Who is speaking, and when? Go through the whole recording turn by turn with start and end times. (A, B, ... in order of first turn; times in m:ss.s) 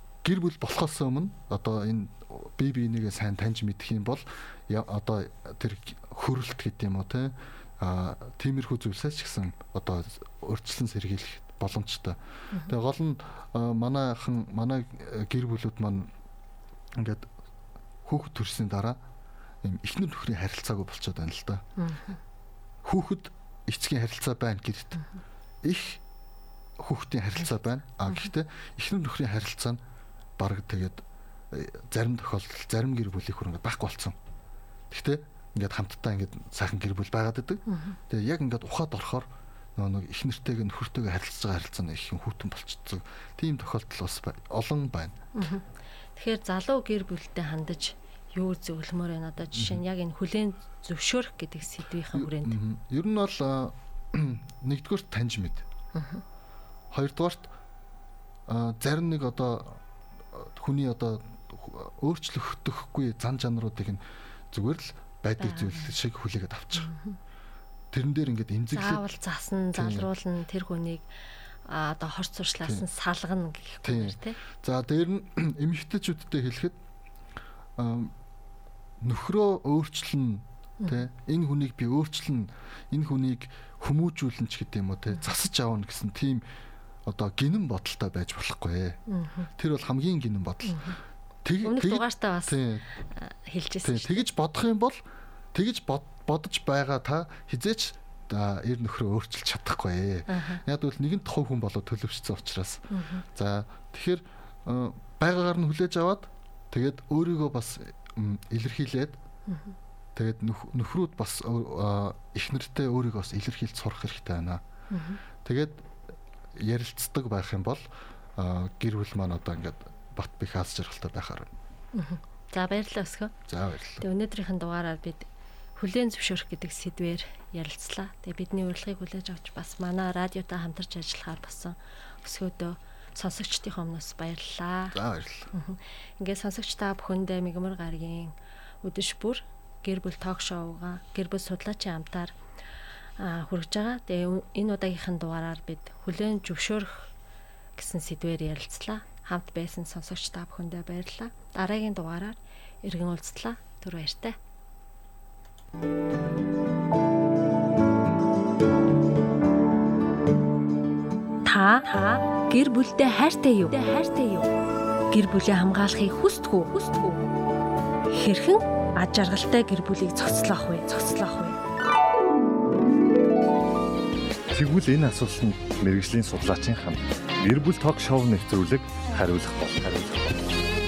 0:00.2-0:16.1 A
0:17.0-0:17.3 A
0:18.0-0:19.0 A
0:19.6-0:21.6 A
0:21.8-0:22.2 B
0:22.8-0:25.0 A
0:25.6-0:26.0 A
0:26.8-0:29.8 A
0:30.4-0:34.2 A
0:34.9-0:45.2 A
0:37.7-0:38.0 B
0:45.4-0:45.6 B
0:46.2-0:52.6 B
0:49.5-0:49.8 A
0:52.1-0:55.6 A
0:56.0-0:56.2 B
0:56.9-0:57.5 A
0:58.5-0:59.8 A
1:00.3-1:06.9 A
1:05.4-1:05.9 B
1:06.8-1:07.2 B
1:07.9-1:09.1 A
1:08.7-1:11.0 B
1:09.7-1:10.1 A
1:11.7-1:14.4 B
1:13.8-1:16.8 A
1:17.8-1:18.1 A
1:19.0-1:26.4 A
1:27.1-1:29.0 A
1:29.1-1:29.5 B
1:29.6-1:30.9 A
1:30.6-1:31.0 B
1:31.4-1:32.8 A
1:31.6-1:32.6 B
1:33.2-1:34.3 B
1:33.8-1:35.0 A
1:35.5-1:42.8 A
1:40.3-1:40.6 B
1:42.9-1:43.2 B
1:43.3-1:49.2 A
1:49.5-1:49.7 B
1:50.2-1:54.6 A
1:54.9-1:55.2 B
1:55.4-1:55.8 A
1:56.6-2:01.5 A
2:01.9-2:03.3 B
2:03.5-2:04.0 A
2:04.0-2:05.3 B
2:05.8-2:15.0 B
2:14.9-2:15.5 A
2:15.5-2:22.3 B
2:23.2-2:27.1 B
2:27.8-2:34.4 B
2:41.4-2:44.5 B
2:45.1-2:47.2 B
2:48.1-2:51.6 B
2:54.5-3:00.4 C